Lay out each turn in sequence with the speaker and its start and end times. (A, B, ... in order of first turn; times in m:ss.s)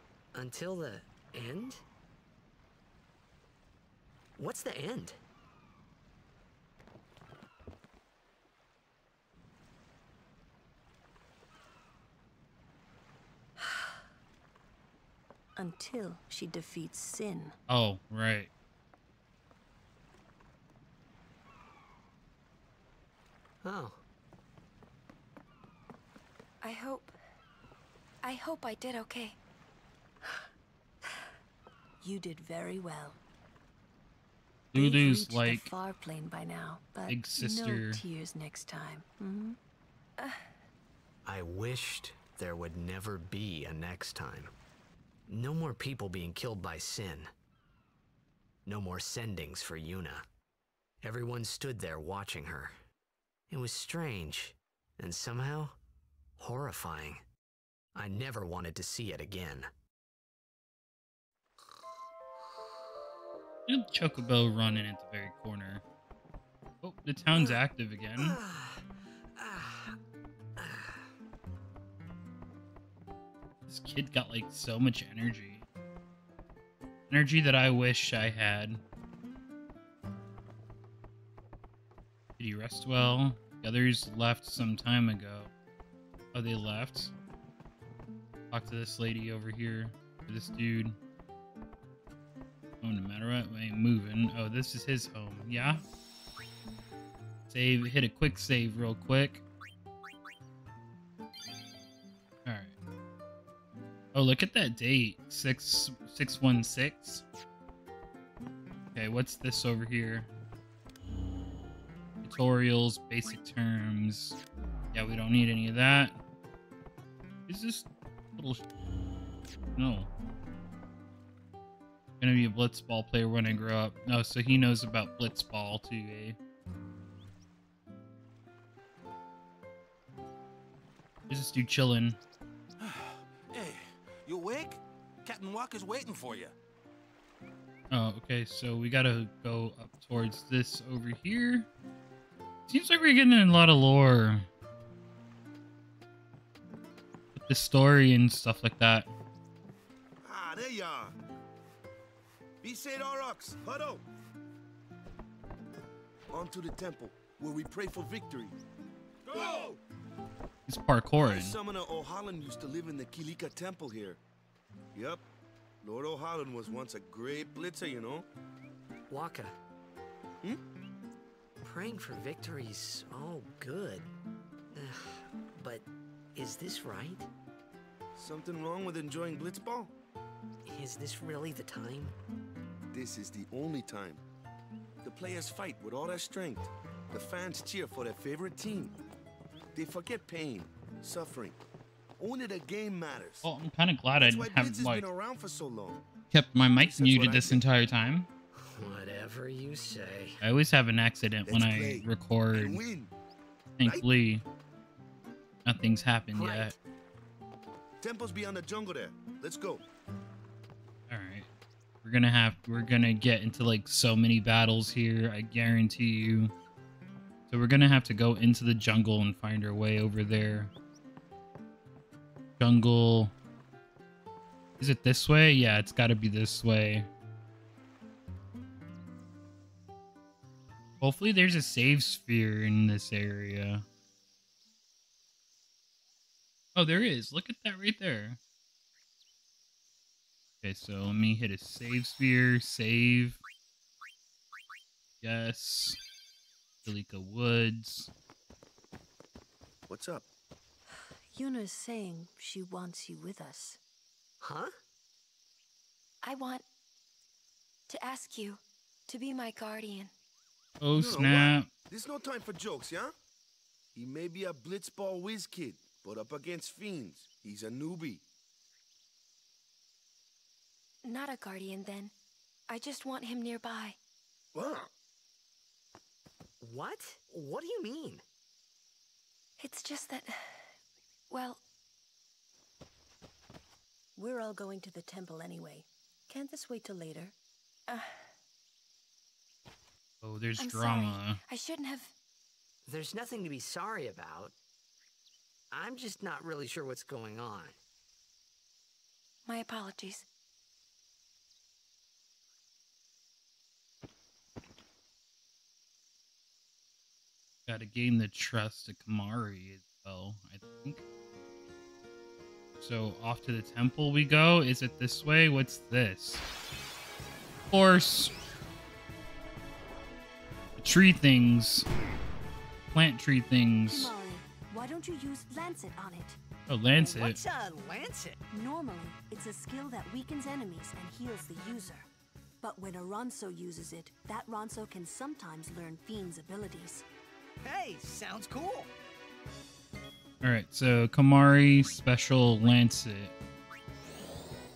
0:00.3-0:01.8 A
0:04.4-0:05.2 A
0:13.6-0:14.0 B
0:15.6-0:17.6 B
0:17.7-0:18.5 C
0:23.6-0:24.0 A
0:26.6-0:27.1 D
0:28.2-0:29.4 D
0:32.0-0:33.2 B
0:34.7-0:35.7 C
0:34.7-0:39.6 B
0:37.1-0:38.0 C
0:41.2-0:44.5 A
0:45.3-0:47.3 A
0:48.7-0:50.2 A
0:51.0-0:52.7 A
0:53.5-0:55.8 A
0:56.4-0:57.2 A
0:58.0-0:59.7 A
1:03.7-1:05.8 C
1:06.8-1:08.4 C
1:07.3-1:07.6 A
1:08.2-1:10.0 A
1:10.6-1:11.1 A
1:13.7-1:15.6 C
1:17.1-1:18.8 C
1:22.4-1:25.5 C
1:26.3-1:27.1 C
1:28.5-1:31.0 C
1:32.8-1:35.8 C
1:37.5-1:39.4 C
1:42.4-1:42.7 C
1:44.1-1:47.2 C
1:48.9-1:50.3 C
1:52.2-1:54.4 C
1:54.9-1:56.2 C
1:57.5-1:58.6 C
1:59.8-2:00.1 C
2:02.2-2:06.4 C
2:11.3-2:12.2 C
2:12.8-2:16.5 E
2:17.9-2:21.7 C
2:22.7-2:24.5 C
2:27.4-2:29.1 C
2:30.2-2:31.1 F
2:32.6-2:34.0 F
2:36.3-2:38.6 F
2:39.3-2:39.8 F
2:40.7-2:41.6 C
2:41.2-2:44.2 F
2:44.9-2:45.2 F
2:45.8-2:48.2 F
2:49.1-2:49.5 A
2:51.6-2:54.1 A
2:54.7-2:57.3 A
2:58.1-2:59.9 F
3:00.6-3:02.2 A
3:02.9-3:04.2 F
3:05.0-3:09.0 F
3:09.8-3:11.6 F
3:12.2-3:13.5 F
3:13.4-3:15.1 C
3:14.2-3:16.0 F
3:16.3-3:18.3 C
3:16.8-3:17.6 F
3:18.6-3:20.4 A
3:20.4-3:22.8 C
3:21.5-3:23.1 F
3:23.8-3:24.4 C
3:25.6-3:26.8 C
3:26.3-3:26.8 A
3:28.0-3:29.8 F
3:31.1-3:31.5 C
3:32.0-3:36.5 C
3:37.5-3:40.7 C
3:42.6-3:43.3 C
3:44.8-3:47.1 C
3:51.0-3:53.8 C
3:56.8-3:58.4 C
4:00.6-4:03.4 C
4:05.2-4:06.0 C
4:06.8-4:08.1 C
4:09.9-4:10.3 F
4:11.3-4:13.8 B
4:14.4-4:14.7 A
4:16.2-4:16.6 D
4:17.9-4:20.1 D
4:20.8-4:21.7 C
4:21.0-4:23.1 F
4:24.0-4:28.2 F
4:31.0-4:32.1 D
4:32.7-4:34.0 D
4:34.5-4:34.9 F
4:36.6-4:38.2 A
4:39.6-4:40.8 D
4:41.3-4:41.6 D
4:44.2-4:47.4 B
4:47.9-4:48.2 D
4:50.2-4:51.4 C
4:50.6-4:52.1 D
4:52.9-4:54.6 A
4:55.7-4:57.8 A
4:59.5-5:00.2 D
5:07.7-5:11.0 C
5:12.8-5:16.4 C
5:17.7-5:18.4 C
5:20.8-5:21.9 C
5:22.9-5:24.1 C
5:23.9-5:26.4 B
5:26.7-5:27.4 C
5:27.0-5:28.4 G
5:28.5-5:32.1 B
5:32.6-5:37.1 B
5:37.6-5:38.9 G
5:40.4-5:43.4 C